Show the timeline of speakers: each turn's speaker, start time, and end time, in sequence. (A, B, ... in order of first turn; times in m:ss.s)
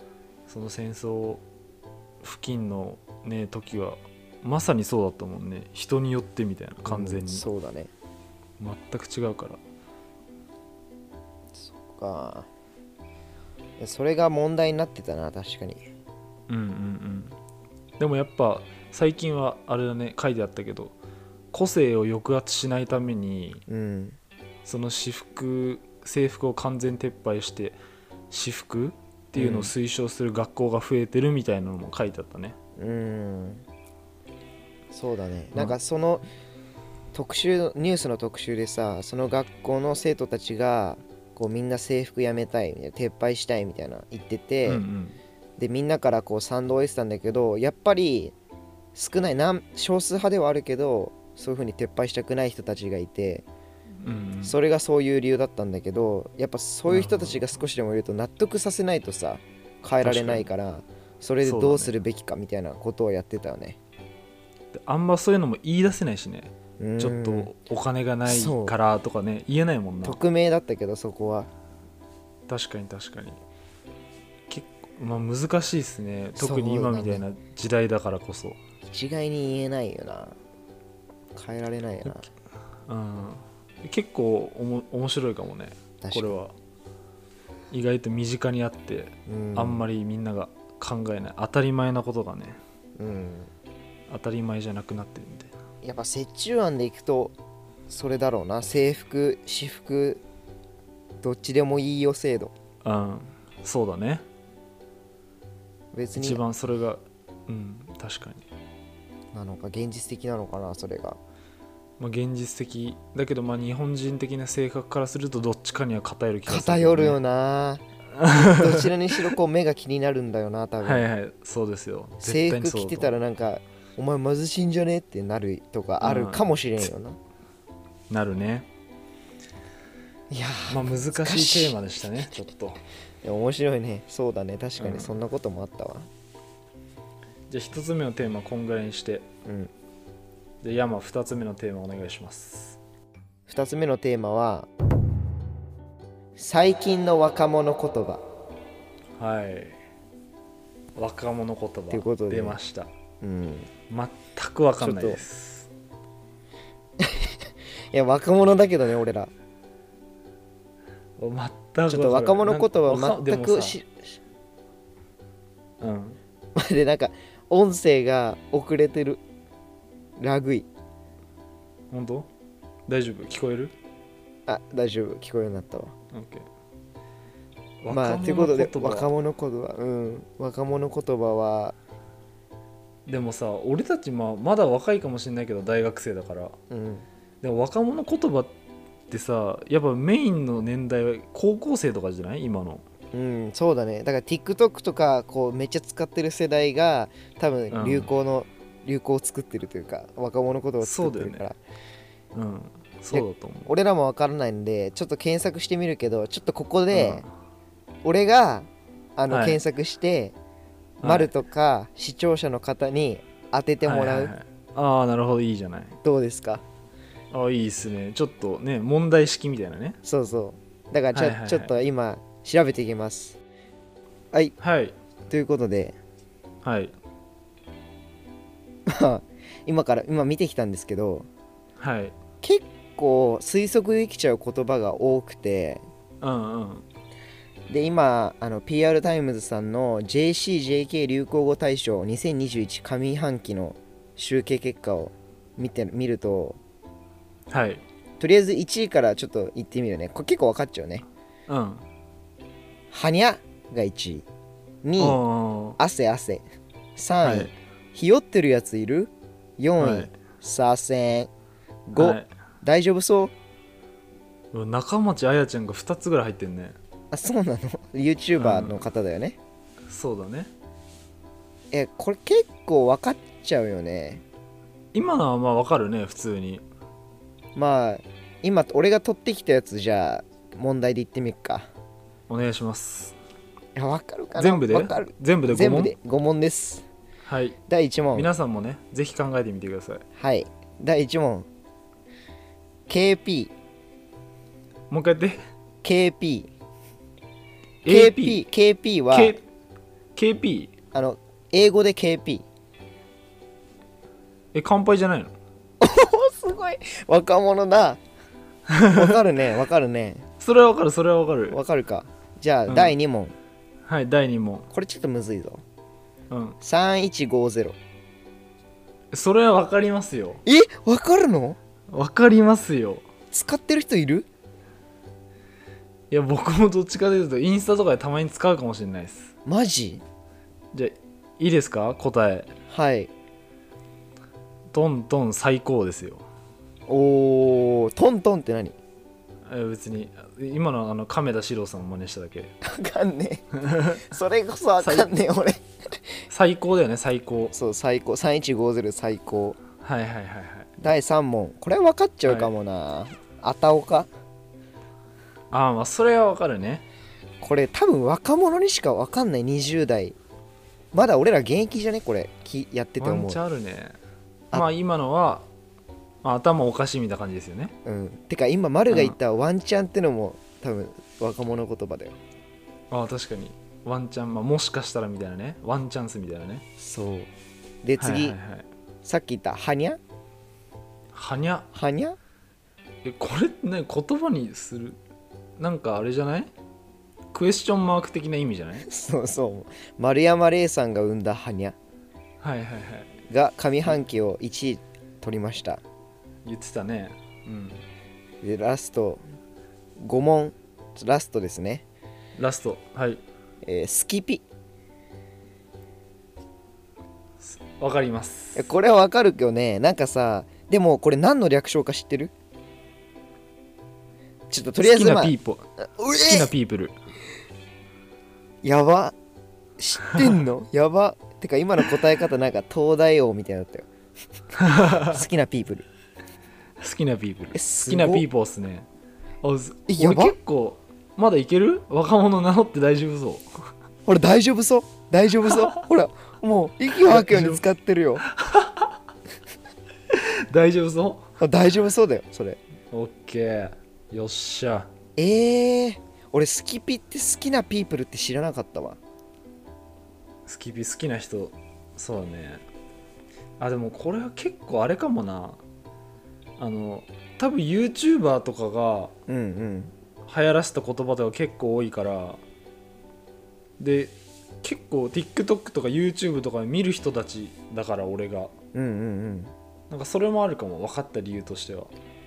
0:00.5-0:01.4 A
0:02.2-0:07.4 A
0:06.9-0:07.9 B
0:08.6-0:09.6 A
0:11.6-0:12.5 B
0:13.8-0:15.8 B
0:16.5-0:17.4 A
0:18.0-0:21.0 A
0:21.5-0:23.6 A
0:23.7-0:24.2 B
0:24.7-0:27.8 A
0:28.3-0:32.6 A
0:29.4-0:29.7 B
0:32.8-0:33.6 B
0:34.9-0:36.2 B
0:37.1-0:44.8 B
0:44.6-0:45.2 A
0:45.6-0:48.3 B
0:49.0-0:53.4 B
0:54.0-0:54.6 A
0:54.4-1:03.8 B
0:56.9-0:57.5 A
1:00.0-1:00.5 A
1:01.4-1:01.9 A
1:04.7-1:10.2 A
1:06.8-1:07.5 B
1:08.3-1:08.8 B
1:10.0-1:11.5 B
1:12.5-1:13.4 A
1:14.5-1:18.6 A
1:16.4-1:17.2 B
1:18.8-1:20.4 B
1:21.3-1:22.3 B
1:22.9-1:26.5 A
1:26.0-1:26.4 B
1:27.7-1:32.6 A
1:29.3-1:29.8 B
1:33.0-1:33.5 B
1:34.1-1:35.5 A
1:35.8-1:37.3 B
1:37.9-1:40.2 B
1:41.2-1:42.5 B
1:42.8-1:44.2 A
1:45.9-1:46.4 B
1:46.2-1:48.4 A
1:49.3-1:51.2 B
1:52.0-1:57.2 A
1:56.5-2:01.0 B
1:58.1-1:59.3 A
2:00.8-2:03.2 A
2:02.2-2:07.2 B
2:06.0-2:06.5 A
2:08.1-2:08.7 A
2:10.3-2:11.8 B
2:10.7-2:12.8 A
2:13.2-2:16.1 B
2:14.8-2:15.1 A
2:17.5-2:19.3 A
2:19.4-2:19.7 B
2:20.6-2:22.8 A
2:23.5-2:24.7 B
2:26.4-2:28.2 B
2:29.2-2:29.8 A
2:31.0-2:32.9 A
2:31.9-2:32.6 B
2:33.2-2:33.7 B
2:33.9-2:35.7 A
2:34.8-2:35.2 B
2:37.0-2:39.3 B
2:41.2-2:43.8 A
2:41.9-2:44.2 B
2:45.8-2:46.2 A
2:46.6-2:49.2 B
2:50.2-2:50.7 B
2:51.9-2:52.3 A
2:52.9-2:53.7 A
2:54.5-2:55.9 B
2:56.1-2:56.5 A
2:57.8-2:59.1 A
2:57.9-3:01.8 B
3:03.1-3:06.6 A
3:06.7-3:07.1 B
3:07.4-3:08.5 A
3:09.1-3:12.8 A
3:13.1-3:21.6 B
3:17.7-3:18.1 A
3:20.8-3:21.4 A
3:22.3-3:23.7 A
3:23.1-3:27.2 B
3:26.9-3:27.3 A
3:28.0-3:30.4 B
3:29.3-3:29.6 A
3:31.0-3:31.3 A
3:31.0-3:34.3 B
3:33.8-3:36.0 A
3:36.0-3:36.6 B
3:37.3-3:40.0 A
3:40.0-3:43.4 B
3:41.1-3:41.8 A
3:44.6-3:45.0 A
3:45.3-3:46.0 B
3:46.6-3:47.0 A
3:48.9-3:51.3 B
3:51.8-3:52.2 A
3:52.4-3:55.8 B
3:56.2-3:56.8 A
3:57.7-4:06.6 B
4:07.5-4:07.8 A
4:08.2-4:11.0 B
4:11.5-4:11.8 A
4:12.9-4:14.3 B
4:14.8-4:15.2 B
4:15.0-4:15.8 A
4:15.8-4:16.4 B
4:17.0-4:21.3 B
4:17.2-4:17.5 A
4:19.8-4:20.1 A
4:21.9-4:23.3 B
4:22.0-4:22.3 A
4:24.5-4:26.8 A
4:27.1-4:29.4 B
4:28.4-4:28.8 A
4:29.9-4:30.5 A
4:31.7-4:34.2 B
4:34.9-4:36.6 A
4:37.6-4:41.7 B
4:42.3-4:43.2 A
4:43.8-4:46.9 B
4:44.4-4:45.9 A
4:47.3-4:47.6 A
4:47.7-4:48.3 B
4:48.1-4:50.0 A
4:50.2-4:51.5 B
4:52.9-4:53.5 B
4:54.9-4:55.4 A
4:55.8-4:56.5 B
4:57.8-4:58.4 A
4:57.9-4:59.4 B
4:59.1-4:59.5 A
5:00.2-5:00.7 A
5:00.9-5:02.5 B
5:04.5-5:05.3 A
5:05.8-5:08.0 B
5:08.7-5:09.2 A
5:08.9-5:10.2 B
5:10.4-5:11.6 A
5:11.5-5:13.4 B
5:12.7-5:13.0 A
5:13.9-5:14.7 A
5:14.7-5:15.6 B
5:16.3-5:16.6 A
5:16.6-5:17.8 B
5:19.1-5:20.4 A
5:20.5-5:21.6 B
5:21.9-5:23.1 A
5:23.3-5:24.3 B
5:26.1-5:29.3 A
5:29.4-5:30.0 B
5:30.7-5:32.5 A
5:32.7-5:33.1 B
5:34.7-5:36.2 A
5:36.9-5:38.8 B
5:39.5-5:42.6 A
5:42.6-5:46.2 B
5:43.6-5:44.1 A
5:44.8-5:45.1 A
5:46.3-5:47.6 A
5:47.5-5:49.6 B
5:49.8-5:50.7 A
5:50.8-5:54.1 B
5:52.3-5:52.5 A
5:55.5-5:56.8 A
5:57.4-6:00.2 B
6:00.9-6:03.4 B
6:03.0-6:04.0 A
6:04.5-6:05.5 A
6:06.2-6:07.7 A
6:07.8-6:12.2 B
6:08.9-6:09.2 A
6:12.9-6:16.6 A
6:16.8-6:17.3 B
6:17.8-6:18.4 B
6:18.0-6:18.7 A
6:19.0-6:20.0 B
6:21.1-6:21.7 A
6:21.7-6:22.2 B
6:23.0-6:25.0 A
6:25.6-6:26.5 A
6:27.3-6:28.9 A
6:28.9-6:31.8 B
6:32.4-6:33.1 A
6:33.3-6:35.8 B
6:36.4-6:37.8 A
6:38.4-6:39.2 B
6:40.0-6:41.8 B
6:42.4-6:43.2 A
6:43.6-6:44.4 B
6:47.4-6:48.7 A
6:48.6-6:52.3 B
6:54.5-6:55.3 B
6:54.8-6:56.9 A
6:55.8-6:56.5 B
6:58.6-6:59.2 B
6:59.8-7:03.9 B
7:04.6-7:05.2 A
7:04.9-7:05.9 B
7:06.8-7:08.9 A
7:07.5-7:08.3 B
7:09.4-7:13.4 A
7:09.9-7:10.4 B
7:14.1-7:18.2 B
7:17.0-7:17.6 A
7:18.2-7:19.0 A
7:20.1-7:21.3 A
7:21.4-7:22.6 B
7:22.9-7:24.9 A
7:25.2-7:29.0 B
7:30.5-7:32.6 A
7:33.6-7:35.6 A
7:36.6-7:39.1 A
7:39.3-7:39.9 B
7:40.3-7:42.4 A
7:43.8-7:48.5 A
7:48.7-7:49.5 B
7:49.9-7:51.9 A